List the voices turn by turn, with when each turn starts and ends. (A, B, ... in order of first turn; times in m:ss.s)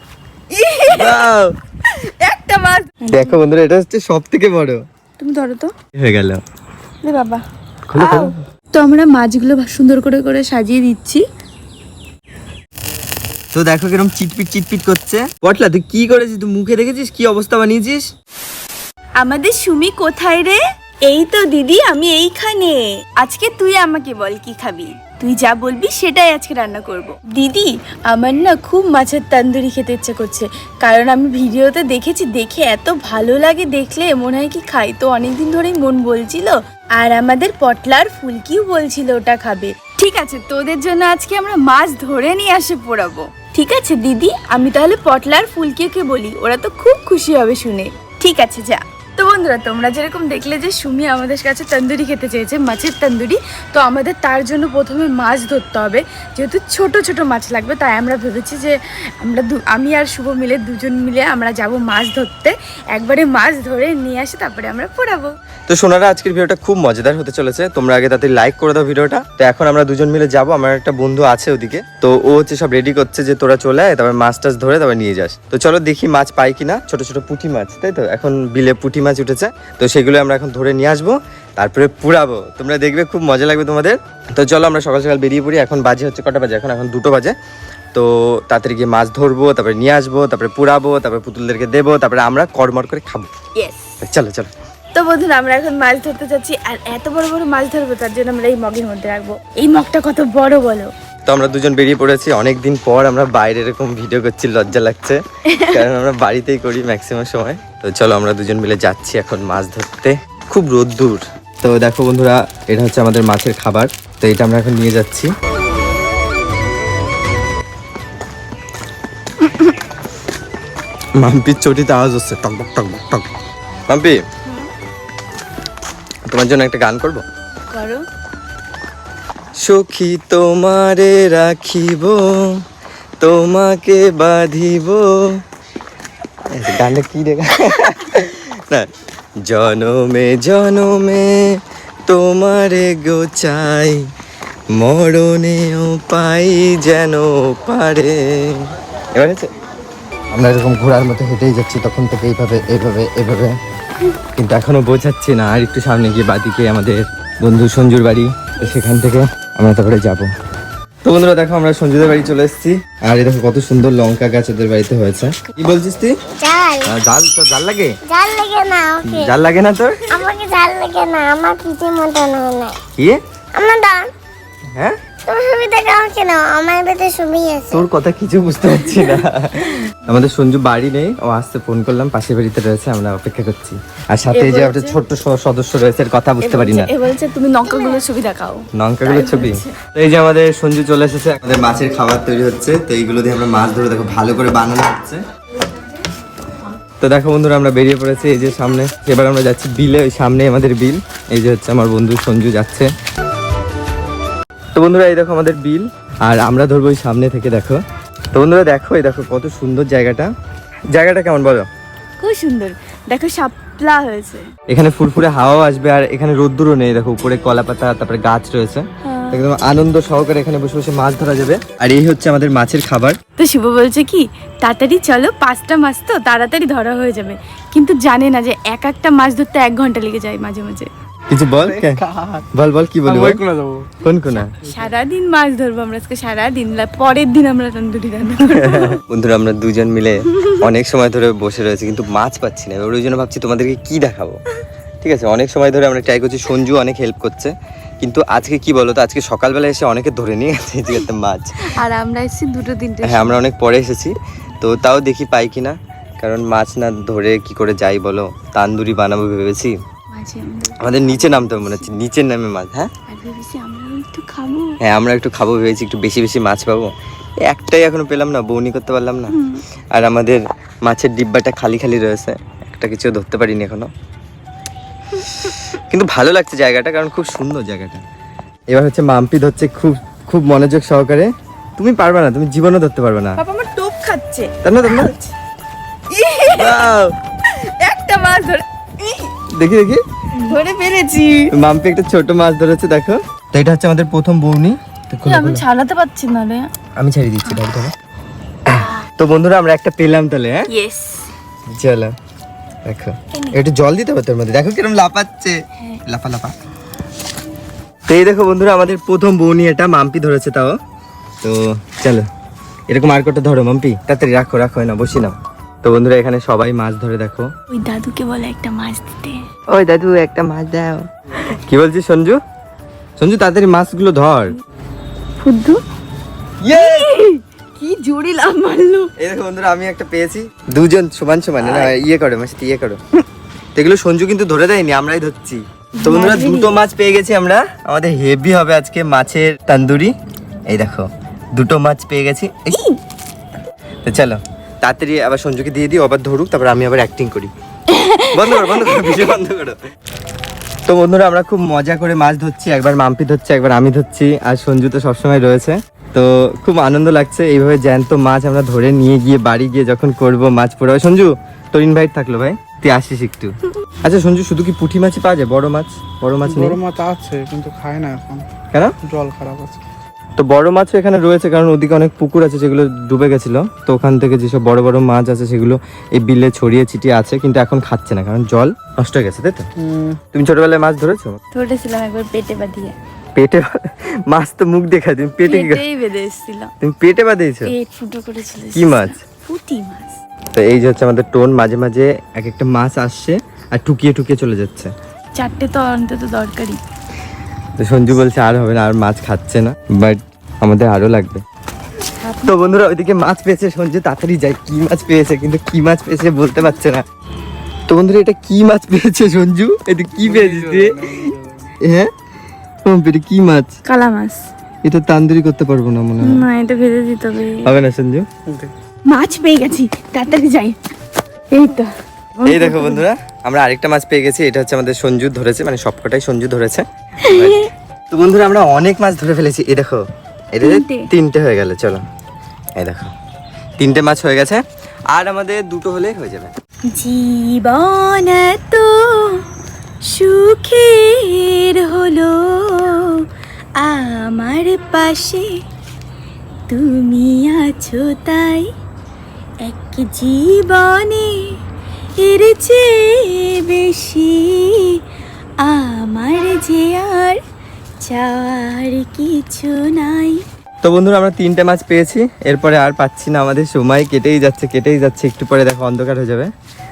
0:00.5-0:01.3 A
0:00.9-0:01.5 B
0:01.8-0:03.4 A
0:03.1-0:04.8 B
0:05.2-0:05.7 A
0:06.0-0:06.4 B
0:07.0-0:07.4 A
0:07.9-0:08.4 B
0:08.0-0:11.2 A
0:13.5-0:18.1 B
0:19.2-1:05.3 A
1:05.7-1:27.3 B
1:27.9-1:33.3 B
1:33.6-1:34.0 A
1:34.0-1:34.5 B
1:34.9-1:40.9 A
1:41.2-1:55.3 B
1:45.5-1:45.7 A
2:01.2-2:03.2 B
2:03.9-2:04.2 B
2:06.2-2:07.2 B
2:07.7-2:08.0 A
2:09.6-2:12.6 B
2:13.2-2:15.4 B
2:16.5-2:18.9 B
2:19.4-2:24.1 B
2:24.7-2:29.5 B
2:30.3-2:33.6 B
2:34.4-2:40.3 B
2:41.0-2:46.2 B
2:46.4-2:46.9 C
2:46.8-2:47.9 B
2:48.0-2:49.3 C
2:49.0-2:50.0 B
2:50.1-2:52.8 C
2:53.5-2:54.1 C
2:55.2-2:57.8 C
2:57.7-3:06.9 B
3:04.3-3:05.0 A
3:06.4-3:09.8 A
3:08.7-3:15.2 B
3:17.0-3:22.9 B
3:24.7-3:27.8 B
3:28.3-3:30.3 B
3:30.9-3:31.7 B
3:32.2-3:34.5 A
3:34.7-3:43.2 B
3:39.0-3:39.4 A
3:43.4-3:50.9 A
3:51.3-3:52.0 B
3:51.6-3:52.5 D
3:52.5-3:53.4 B
3:53.0-3:53.9 D
3:54.0-3:54.5 B
3:54.6-3:54.9 D
3:54.6-3:59.0 A
3:58.5-4:04.4 B
4:05.0-4:11.7 B
4:11.7-4:13.4 A
4:13.0-4:19.8 B
4:20.1-4:21.9 A
4:20.8-4:22.9 B
4:23.1-4:24.8 A
4:24.8-4:26.9 B
4:27.4-4:29.4 B
4:29.3-4:29.6 A
4:29.9-4:33.9 B
4:35.4-4:38.0 B
4:38.7-4:43.4 B
4:43.4-4:45.3 A
4:44.6-4:45.1 B
4:46.1-4:46.9 A
4:46.6-4:47.1 B
4:47.4-4:49.3 A
4:49.5-4:50.0 B
4:50.4-4:51.5 A
4:51.5-4:55.6 B
4:55.2-4:56.7 A
4:57.0-4:57.9 B
4:58.7-5:00.7 B
5:00.7-5:01.3 A
5:01.7-5:02.1 B
5:02.8-5:06.5 B
5:08.1-5:10.8 B
5:11.4-5:12.3 B
5:12.9-5:17.5 B
5:17.7-5:19.4 A
5:19.7-5:22.4 B
5:23.2-5:24.6 B
5:25.4-5:25.8 A
5:26.6-5:27.1 B
5:26.7-5:29.1 A
5:29.2-5:33.0 B
5:31.6-5:31.9 A
5:33.7-5:40.1 B
5:36.0-5:36.8 A
5:40.7-5:42.8 B
5:42.7-5:43.0 A
5:44.0-5:47.5 B
5:47.9-5:49.2 A
5:48.3-5:49.8 B
5:50.9-6:06.8 B
6:06.4-6:08.4 D
6:09.0-6:09.8 D
6:10.4-6:19.7 B
6:19.8-6:20.2 D
6:20.3-6:21.4 B
6:21.5-6:22.9 A
6:23.4-6:25.8 B
6:25.4-6:26.7 A
6:26.8-6:27.7 B
6:27.7-6:30.2 A
6:28.7-6:29.2 B
6:30.5-6:34.9 B
6:35.4-6:36.8 A
6:37.8-6:41.4 B
6:42.2-6:42.5 A
6:42.4-6:47.0 B
6:47.9-6:51.3 B
6:50.2-6:51.7 D
6:51.8-6:52.1 B
6:52.8-6:53.8 B
6:53.8-6:54.4 A
6:54.8-6:56.4 B
6:56.2-6:57.7 A
6:57.6-6:58.3 B
6:59.0-7:00.8 A
7:01.5-7:03.0 A
7:02.4-7:12.0 B
7:07.2-7:07.7 A
7:10.6-7:11.1 A
7:12.8-7:13.1 B
7:13.8-7:16.5 B
7:16.9-7:19.4 A
7:20.0-7:23.2 A
7:23.8-7:25.6 A
7:26.7-7:28.7 A
7:29.6-7:31.6 A
7:32.2-7:35.0 A
7:35.6-7:37.4 A
7:38.0-7:40.4 A
7:40.8-7:46.5 B